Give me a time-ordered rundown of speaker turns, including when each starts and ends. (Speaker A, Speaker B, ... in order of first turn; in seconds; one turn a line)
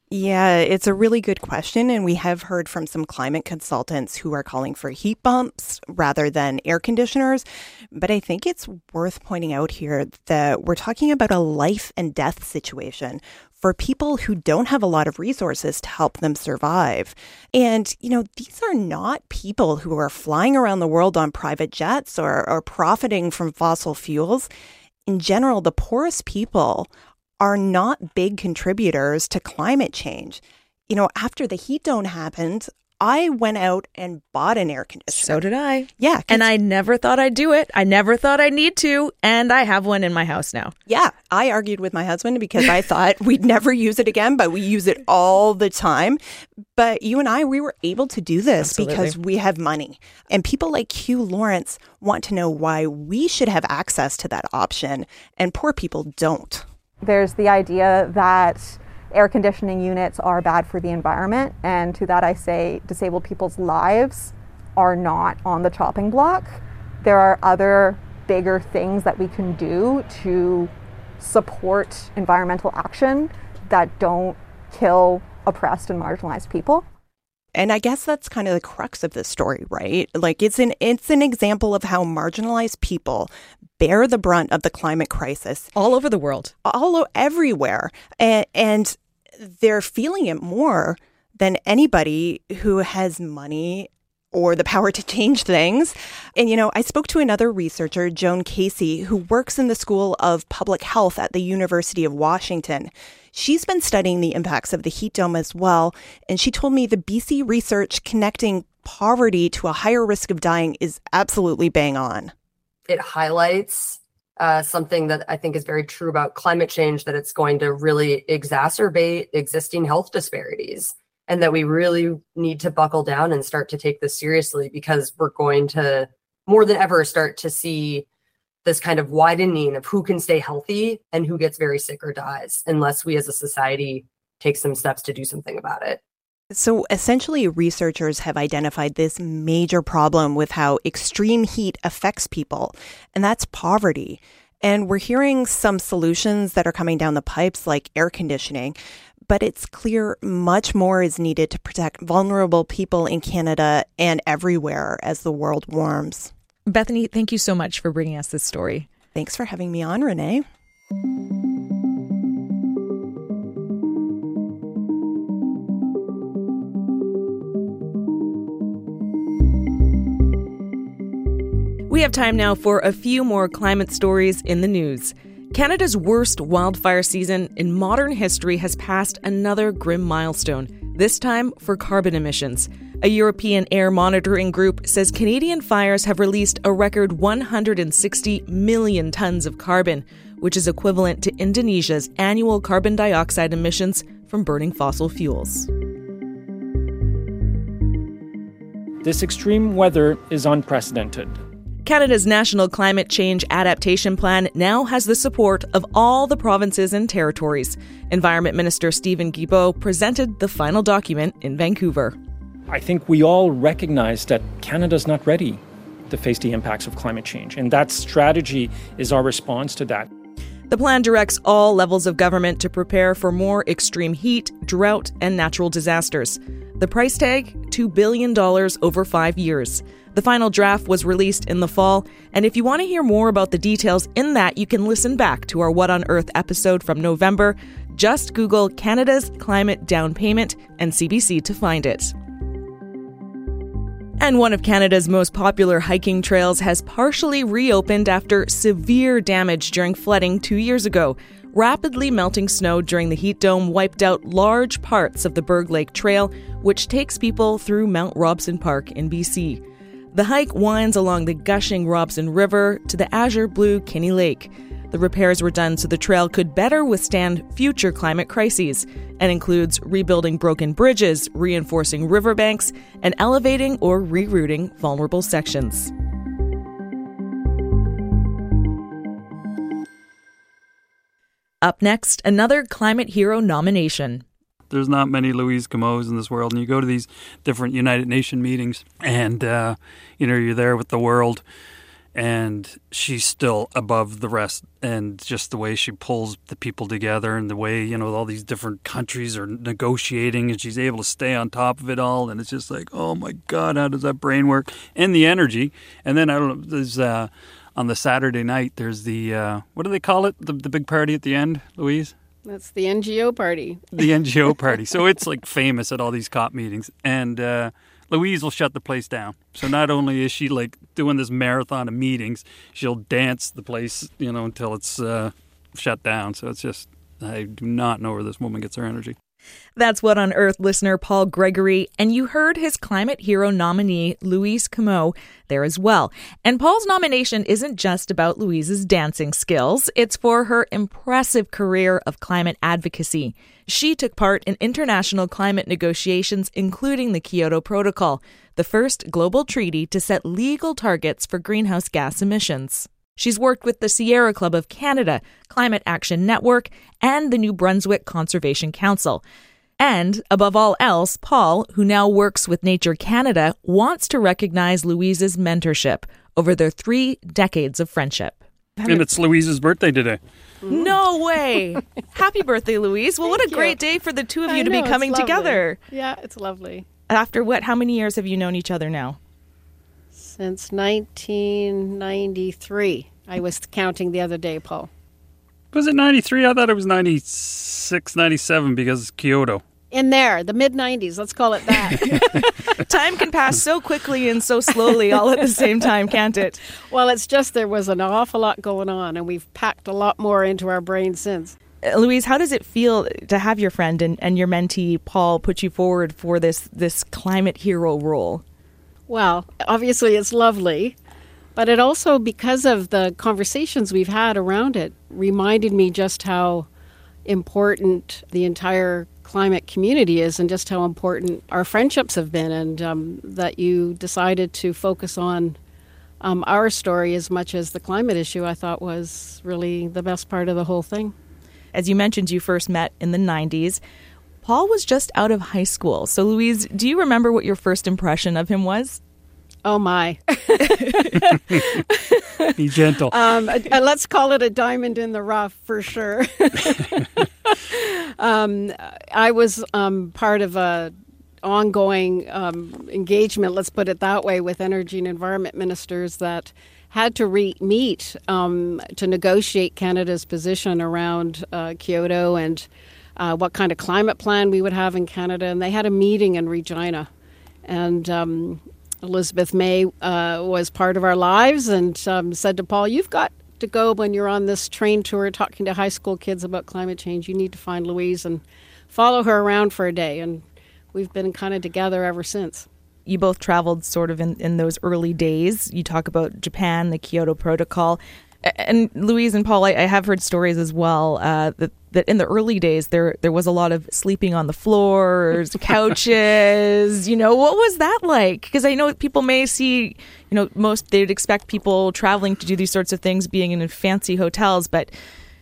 Speaker A: 0.1-24.5
Speaker A: 25.1-35.4
Speaker B: 35.1-40.7
Speaker A: 36.0-36.5
Speaker A: 40.9-46.2
Speaker A: 46.8-56.7
Speaker B: 48.6-49.2
Speaker C: 57.0-76.9
Speaker A: 77.5-85.7
Speaker B: 85.8-86.5
Speaker A: 86.6-112.3
Speaker D: 112.9-128.1
Speaker D: 128.6-136.0
Speaker A: 136.5-156.3
Speaker B: 156.7-158.9
Speaker A: 159.2-160.4
Speaker B: 171.9-195.7
Speaker E: 199.0-201.3
Speaker B: 201.8-212.2
Speaker E: 212.7-220.1
Speaker B: 220.7-242.1
Speaker B: 244.2-259.6
Speaker B: 260.1-275.9
Speaker B: 281.6-284.2
Speaker F: 284.7-291.4
Speaker F: 292.1-312.1
Speaker G: 312.4-313.9
Speaker F: 313.9-329.2
Speaker B: 329.8-359.2
Speaker B: 359.8-369.1
Speaker F: 368.9-370.2
Speaker G: 370.6-371.0
Speaker B: 370.7-375.8
Speaker G: 373.2-373.8
Speaker G: 374.5-376.9
Speaker B: 377.1-379.2
Speaker G: 380.2-384.9
Speaker F: 385.7-389.6
Speaker G: 389.9-392.5
Speaker B: 392.8-396.6
Speaker G: 396.9-401.6
Speaker B: 401.8-408.4
Speaker G: 409.1-411.0
Speaker G: 411.6-416.7
Speaker G: 417.2-425.6
Speaker G: 426.2-431.1
Speaker B: 431.7-433.8
Speaker B: 434.4-439.0
Speaker G: 439.6-442.5
Speaker B: 440.7-441.0
Speaker F: 442.6-443.1
Speaker G: 443.1-467.1
Speaker G: 467.6-482.7
Speaker B: 483.1-504.9